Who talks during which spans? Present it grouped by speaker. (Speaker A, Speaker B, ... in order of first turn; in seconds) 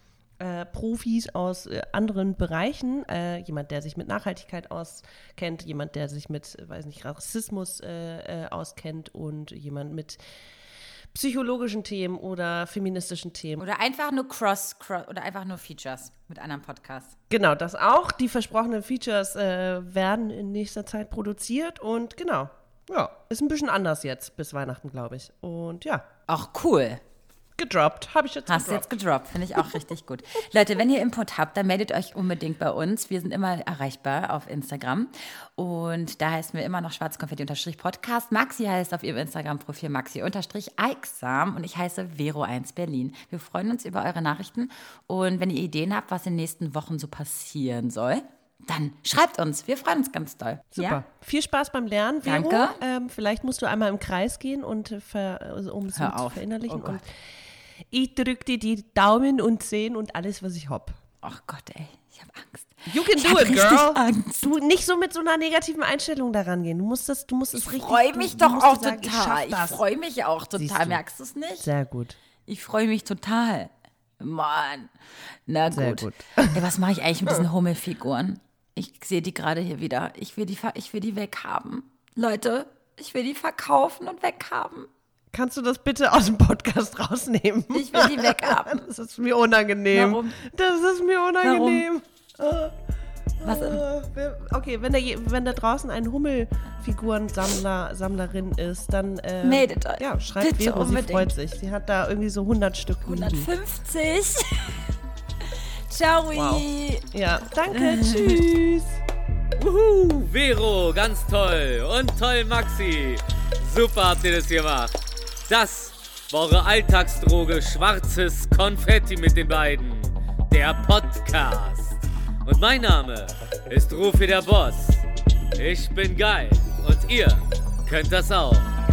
Speaker A: 0.4-10.2, 11.1-13.6, 17.3-26.0, 27.6-28.9, 50.7-57.0, 57.9-61.0, 62.9-69.8, 70.5-71.0, 71.6-72.2, 75.7-76.6, 85.3-92.8, 93.4-103.5, 106.3-109.0
Speaker B: 13.6-17.1, 26.3-27.0, 28.5-51.0, 52.2-52.8, 55.9-57.0, 61.2-64.5, 67.5-71.7, 72.5-74.9, 75.5-84.9, 87.7-88.9, 89.9-90.3, 91.4-91.8, 93.4-93.8, 99.4-101.3, 103.0-104.8, 105.4-107.1, 107.7-108.4
Speaker C: 109.6-114.9, 115.5-125.0, 125.5-128.7